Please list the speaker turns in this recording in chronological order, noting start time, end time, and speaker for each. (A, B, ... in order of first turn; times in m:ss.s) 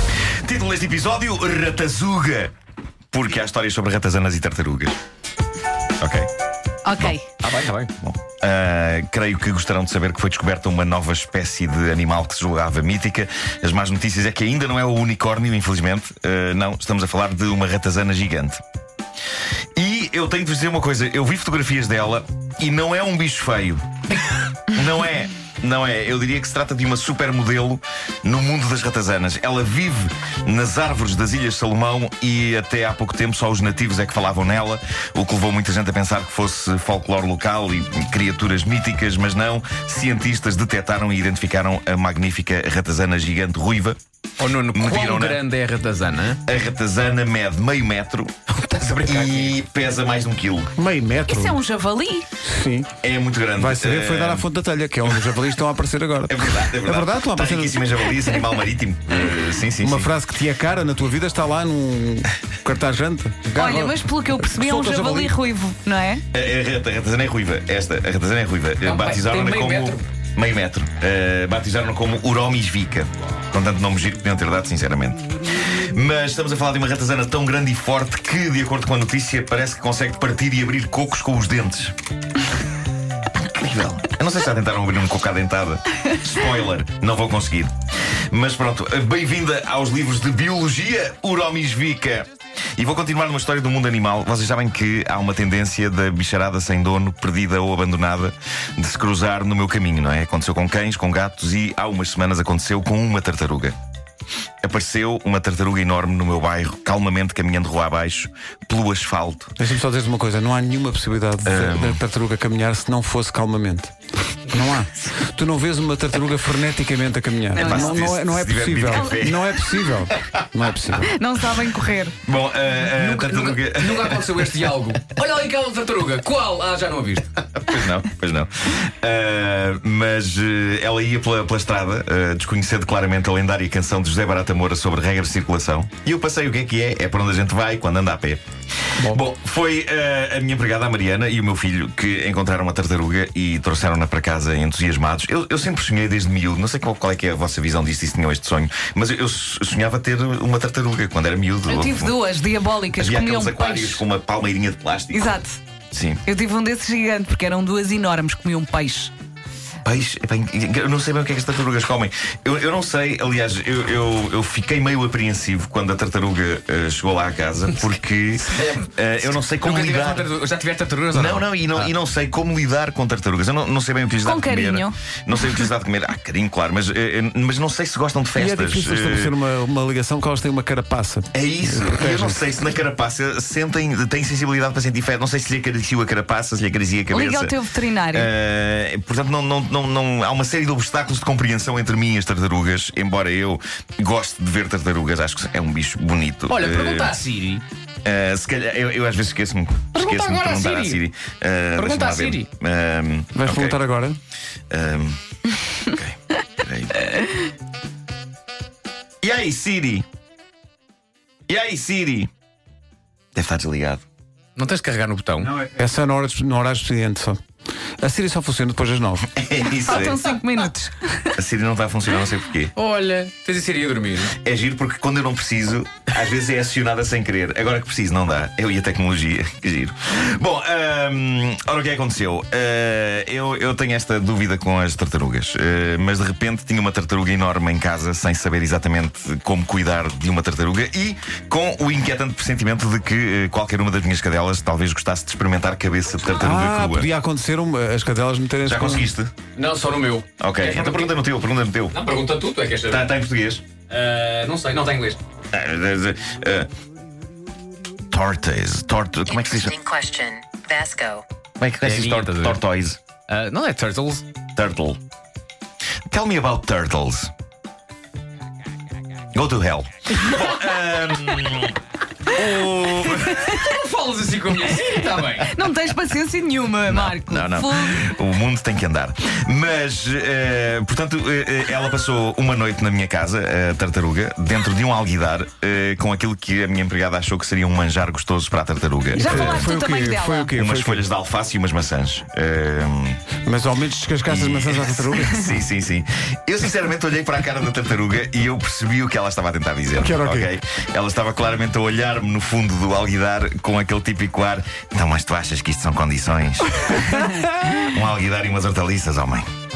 0:00.4-0:02.5 A
0:03.1-0:05.0 A
0:06.0-0:06.3 A
0:06.8-0:07.3 B
0:07.4-0:07.9 C
0:08.0-0:18.6 A
0:19.8-0:44.0 A
0:44.4-0:46.4 C
0:44.7-0:45.4 A
0:46.4-0:50.7 A
0:48.8-0:49.5 C
0:50.8-0:51.6 D
0:51.3-0:52.3 B
0:52.4-0:52.9 D
0:53.0-0:54.5 A
0:53.6-0:57.8 D
0:56.3-1:00.1 A
0:59.8-1:05.3 D
1:03.6-1:06.2 B
1:06.3-1:21.9 A
1:08.8-1:10.1 C
1:23.3-1:27.7 A
1:28.3-1:43.8 A
1:44.6-1:49.5 A
1:49.6-1:53.9 D
1:51.4-1:52.0 A
1:54.4-2:01.1 D
1:57.5-1:58.0 B
1:57.6-2:00.4 A
2:00.9-2:02.2 B
2:02.2-2:04.6 A
2:02.8-2:07.3 C
2:07.5-2:18.4 A
2:19.1-2:32.2 A
2:31.7-2:34.0 B
2:33.0-2:35.3 A
2:35.1-2:35.6 B
2:35.9-2:36.2 A
2:36.2-2:39.1 B
2:39.8-2:50.3 A
2:48.6-2:51.9 C
2:51.1-2:59.4 A
2:54.2-2:54.9 B
2:58.4-3:02.4 D
3:01.3-3:07.6 A
3:07.1-3:08.3 B
3:08.1-3:17.2 A
3:16.5-3:17.6 C
3:18.0-3:23.8 A
3:19.9-3:21.0 C
3:21.8-3:22.5 C
3:23.4-3:24.2 D
3:24.7-3:25.2 A
3:25.8-3:27.1 A
3:29.2-3:30.0 A
3:31.5-3:32.3 A
3:33.4-3:34.0 A
3:34.6-3:35.5 C
3:35.4-3:37.4 D
3:38.0-3:39.3 D
3:39.3-3:40.2 A
3:39.8-3:41.4 B
3:41.4-3:42.7 A
3:42.8-3:44.3 C
3:44.3-4:07.1 A
4:06.4-4:09.1 D
4:08.6-4:09.3 A
4:09.5-4:11.1 C
4:10.4-4:12.0 A
4:11.9-4:13.1 C
4:12.9-4:13.6 A
4:13.9-4:15.2 C
4:15.5-4:16.7 A
4:18.1-4:19.8 A
4:19.3-4:21.2 E
4:21.6-4:23.0 A
4:21.8-4:22.6 C
4:23.3-4:24.2 C
4:24.6-4:25.0 A
4:26.1-4:27.3 A
4:29.3-4:33.6 A
4:33.6-4:35.5 C
4:35.4-4:38.0 B
4:36.8-4:49.7 A
4:49.1-4:51.0 D
4:49.1-4:50.6 B
4:50.5-4:53.2 A
4:53.4-4:55.5 D
4:54.2-5:07.1 A
4:59.9-5:00.5 D
5:07.0-5:07.8 D
5:07.8-5:09.4 A